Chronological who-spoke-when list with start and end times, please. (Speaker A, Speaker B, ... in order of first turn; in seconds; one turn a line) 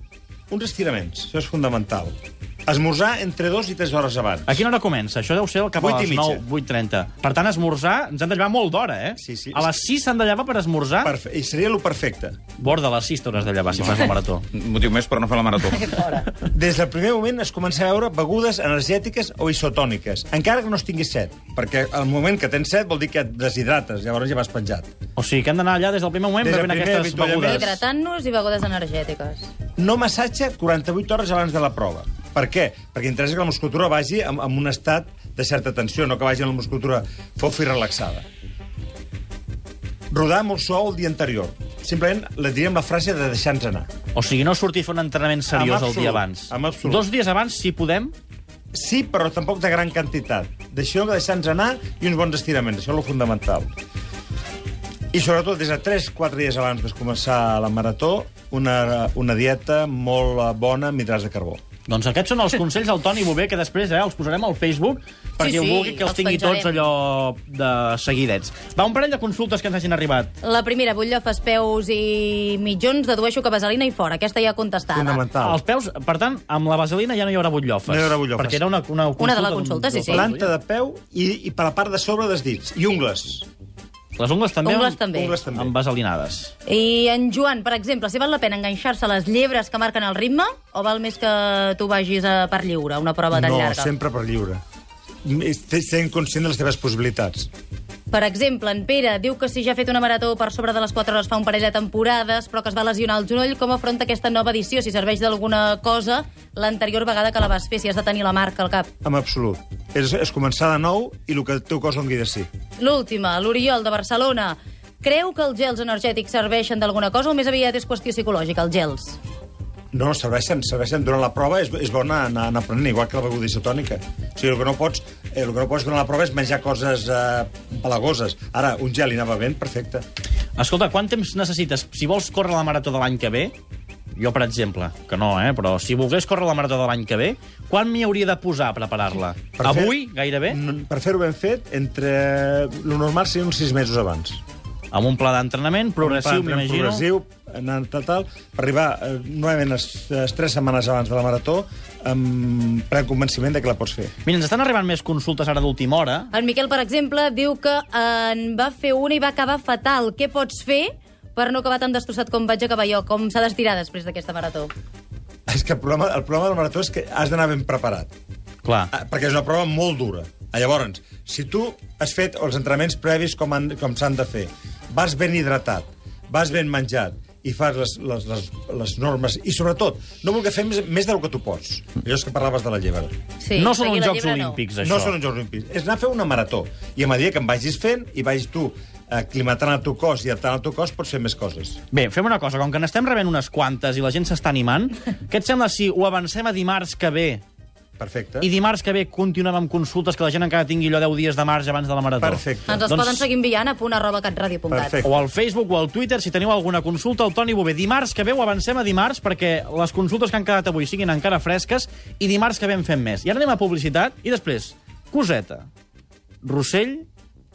Speaker A: 0.5-4.6
Speaker B: 4.5-11.1
Speaker A: 5.8-6.4
Speaker A: 9.2-9.8
Speaker A: 11.0-12.4
Speaker B: 12.6-14.4
Speaker C: 13.9-16.1
Speaker D: 15.7-16.3
Speaker A: 16.4-24.9
Speaker B: 25.1-27.7
Speaker A: 26.4-27.8
Speaker D: 27.4-29.5
Speaker A: 29.8-38.2
Speaker A: 40.1-43.9
Speaker B: 44.1-48.1
Speaker A: 45.5-47.0
Speaker A: 48.7-53.7
Speaker A: 55.1-61.6
Speaker B: 61.9-70.3
Speaker D: 65.4-66.9
Speaker D: 70.4-75.2
Speaker A: 74.9-75.6
Speaker B: 75.4-80.5
Speaker A: 77.9-78.6
Speaker D: 79.2-80.3
Speaker A: 80.0-83.5
Speaker B: 84.2-86.5
Speaker D: 84.6-85.3
Speaker A: 85.1-85.7
Speaker D: 86.7-93.9
Speaker A: 93.3-94.6
Speaker A: 95.2-97.5
Speaker D: 98.1-108.9
Speaker A: 109.0-112.5
Speaker D: 112.8-119.2
Speaker A: 119.9-130.0
Speaker B: 130.6-133.5
Speaker B: 134.1-140.6
Speaker A: 139.6-144.4
Speaker B: 144.9-147.1
Speaker A: 146.0-154.1
Speaker B: 154.2-156.3
Speaker D: 156.3-164.7
Speaker A: 165.5-168.1
Speaker B: 168.6-168.9
Speaker A: 168.9-183.1
Speaker D: 183.4-184.6
Speaker B: 183.6-185.2
Speaker A: 184.8-191.8
Speaker B: 191.9-197.4
Speaker A: 198.0-198.5
Speaker B: 198.4-203.2
Speaker A: 202.2-202.8
Speaker D: 202.7-205.0
Speaker A: 204.7-205.2
Speaker B: 205.0-215.7
Speaker B: 216.4-217.1